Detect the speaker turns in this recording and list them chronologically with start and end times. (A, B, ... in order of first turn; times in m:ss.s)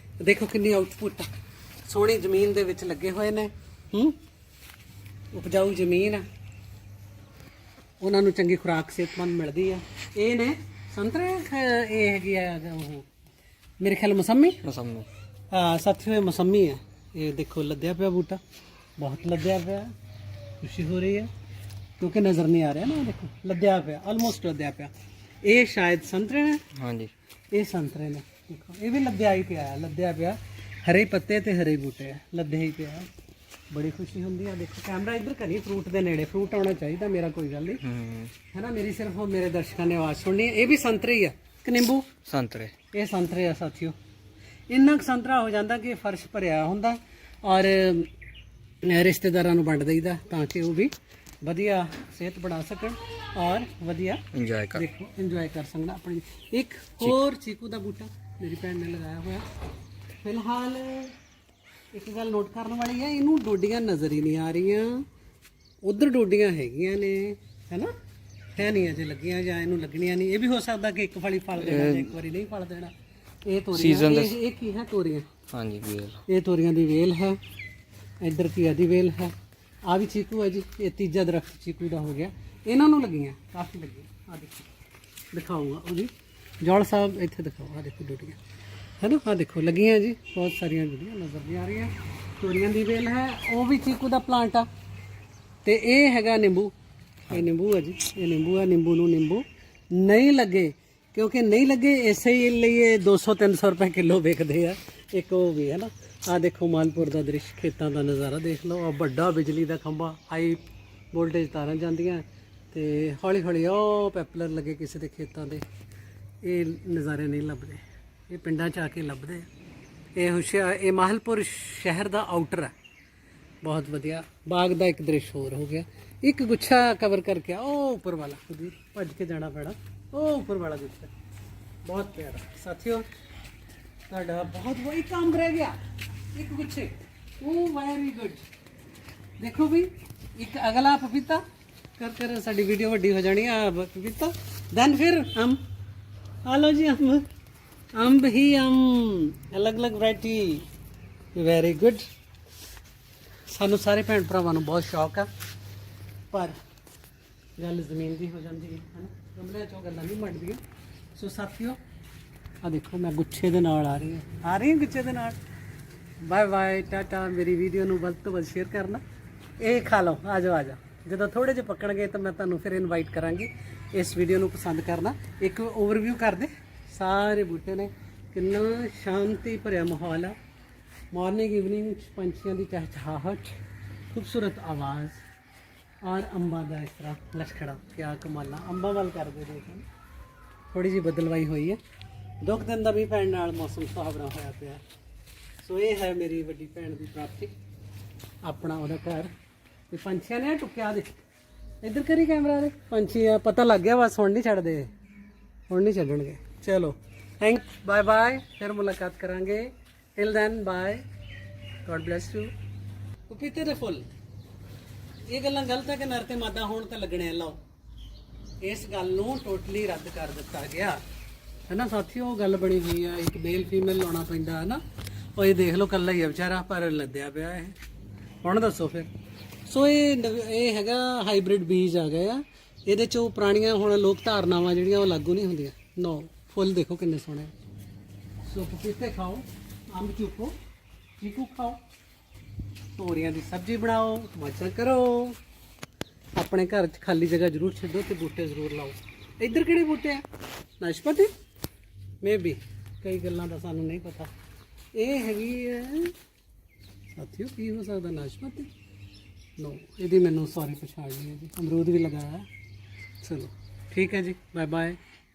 0:00.2-0:01.3 A
0:01.8-0:04.2 A
0:05.3-0:06.2 A
0:08.0-0:13.1 A
0:13.8-0:14.6 A
0:14.6-0:15.1 B
0:15.5-0:18.4 A
0:19.0-0:19.9 A
0:20.6-0:21.3 A
0:22.0-0:24.9 A
0:25.4-0:26.6 A
0:26.8-0:27.1 B
0:27.5-0:33.1 A
0:33.7-0:37.8 A
0:37.8-0:38.3 B
0:38.5-0:42.1 A
0:42.2-0:42.7 B
0:42.9-0:43.9 A
0:44.7-0:48.1 A
0:48.8-0:59.5 A
0:54.3-0:54.8 B
1:00.2-1:01.1 A
1:01.9-1:05.0 A
1:05.8-1:07.9 A
1:08.6-1:12.9 A
1:11.6-1:12.1 B
1:13.4-1:15.3 A
1:13.7-1:14.4 B
1:15.5-1:16.2 B
1:16.3-1:17.4 A
1:18.2-1:19.3 A
1:19.9-1:24.7 A
1:25.3-1:28.4 A
1:29.0-1:34.7 A
1:35.6-1:36.7 A
1:37.3-1:50.6 A
1:51.1-1:55.6 A
1:56.4-1:59.5 A
2:00.2-2:02.7 A
2:03.6-2:11.1 A
2:11.8-2:13.0 A
2:14.1-2:15.8 A
2:16.3-2:18.4 A
2:19.4-2:21.4 A
2:22.0-2:25.6 A
2:26.4-2:27.3 A
2:27.9-2:30.7 A
2:31.3-2:32.1 A
2:33.5-2:35.3 A
2:36.3-2:36.6 A
2:37.6-2:40.6 A
2:41.2-2:41.8 A
2:42.6-2:45.4 A
2:46.2-2:49.0 A
2:49.6-3:00.3 A
3:01.1-3:03.6 A
3:04.1-3:05.2 A
3:06.0-3:09.8 A
3:10.7-3:11.8 A
3:12.4-3:14.8 A
3:15.6-3:17.5 A
3:18.4-3:19.3 A
3:19.9-3:21.1 A
3:21.8-3:24.9 A
3:25.7-3:31.0 A
3:31.8-3:32.5 A
3:33.3-3:34.1 A
3:35.3-3:37.6 A
3:38.6-3:41.0 A
3:41.7-3:44.8 A
3:45.4-3:47.8 A
3:48.4-3:49.1 A
3:49.7-3:57.5 A
3:58.4-4:00.5 A
4:01.2-4:01.8 A
4:03.0-4:05.4 A
4:06.4-4:10.2 A
4:10.8-4:11.3 A
4:12.2-4:14.3 A
4:14.9-4:16.1 A
4:17.1-4:18.7 A
4:19.6-4:22.5 A
4:23.2-4:25.0 A